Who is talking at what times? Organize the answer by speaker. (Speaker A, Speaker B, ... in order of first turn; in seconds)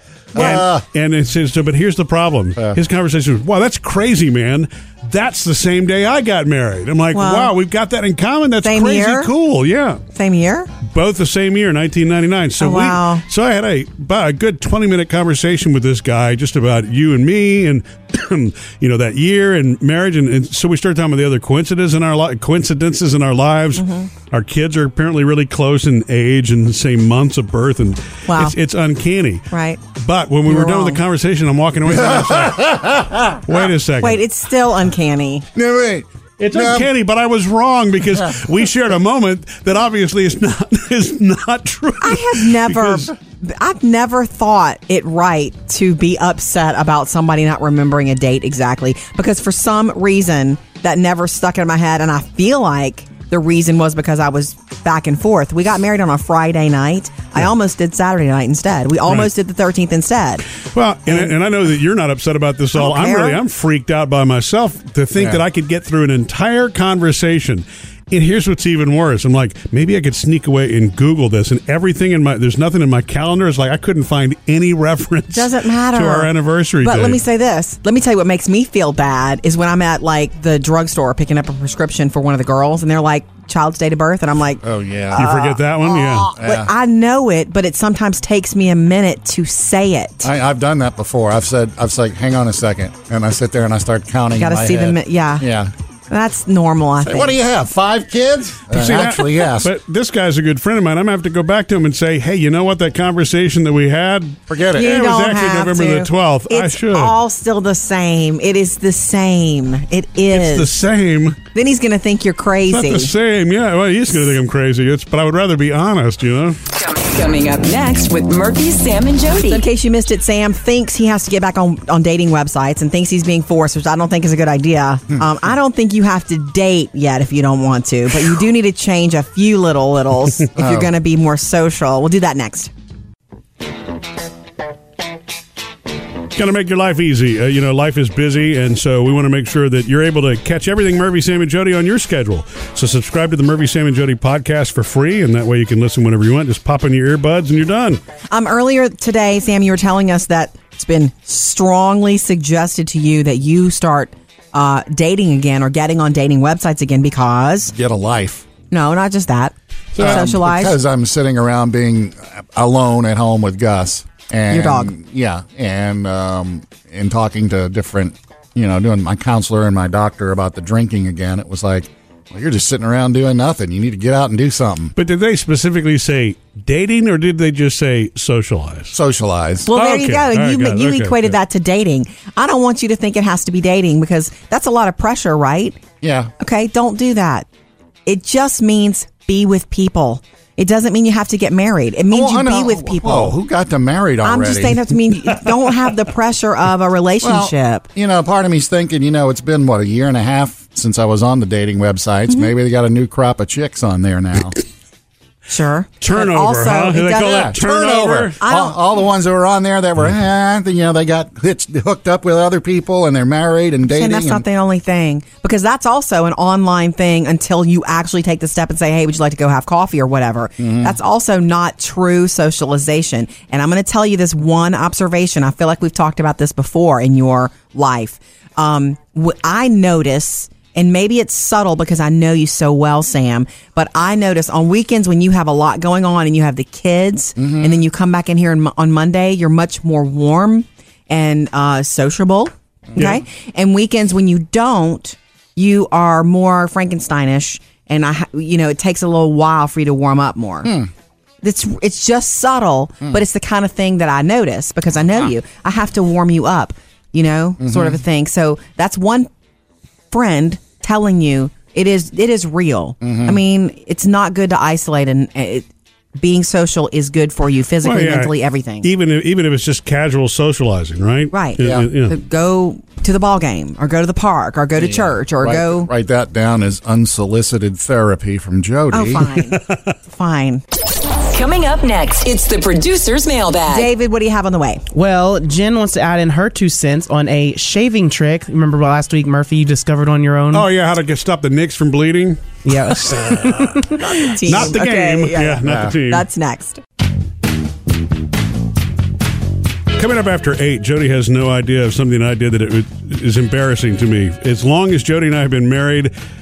Speaker A: 0.3-0.6, 7.1-7.5, 8.6-9.3, 10.1-10.7, 12.6-13.2, 23.8-24.1, 28.3-28.5, 29.5-29.8, 30.4-31.0, 34.0-35.4, 42.0-60.4, 61.1-61.3, 62.7-63.4, 75.3-76.3, 76.8-84.6, 85.1-90.3, 94.4-95.5, 96.1-97.4, 104.7-110.7, 111.5-113.1, 119.5-132.7, 148.3-157.7, 158.7-160.8, 164.5-164.9, 179.7-185.8, 186.4-187.5, 188.1-193.3, 194.2-197.8, 205.5-207.6, 208.4-208.8, 213.9-250.7, 251.4-259.3, 260.1-265.6, 266.2-268.9, 271.3-275.9, 278.9-280.6, 283.7-284.8, 294.3-296.8
Speaker B: 0.3-0.8, 31.9-33.5, 35.5-36.9, 84.6-85.3, 86.2-86.7, 90.2-95.7, 97.0-99.7, 104.5-105.0, 130.6-130.9, 157.7-158.4, 160.0-174.9, 178.9-179.7, 186.0-186.3, 192.1-194.8, 197.2-204.6, 207.2-214.4, 220.6-220.9, 237.4-237.8, 250.6-250.9, 257.6-258.0, 263.0-263.4, 271.6-271.9, 274.8-279.2, 295.6-295.9
Speaker C: 0.4-10.0, 10.8-32.7, 33.5-34.2, 36.4-43.1, 60.7-77.2, 85.2-86.3, 98.7-107.1, 110.3-111.4, 112.7-116.6, 136.3-148.0, 159.9-160.3, 174.9-178.9, 179.7-181.3, 206.0-208.4, 267.8-272.1, 279.3-279.9, 290.5-293.6, 294.5-296.3, 299.9-306.1
Speaker D: 116.7-119.6, 281.2-283.9
Speaker E: 284.9-290.7, 292.6-294.6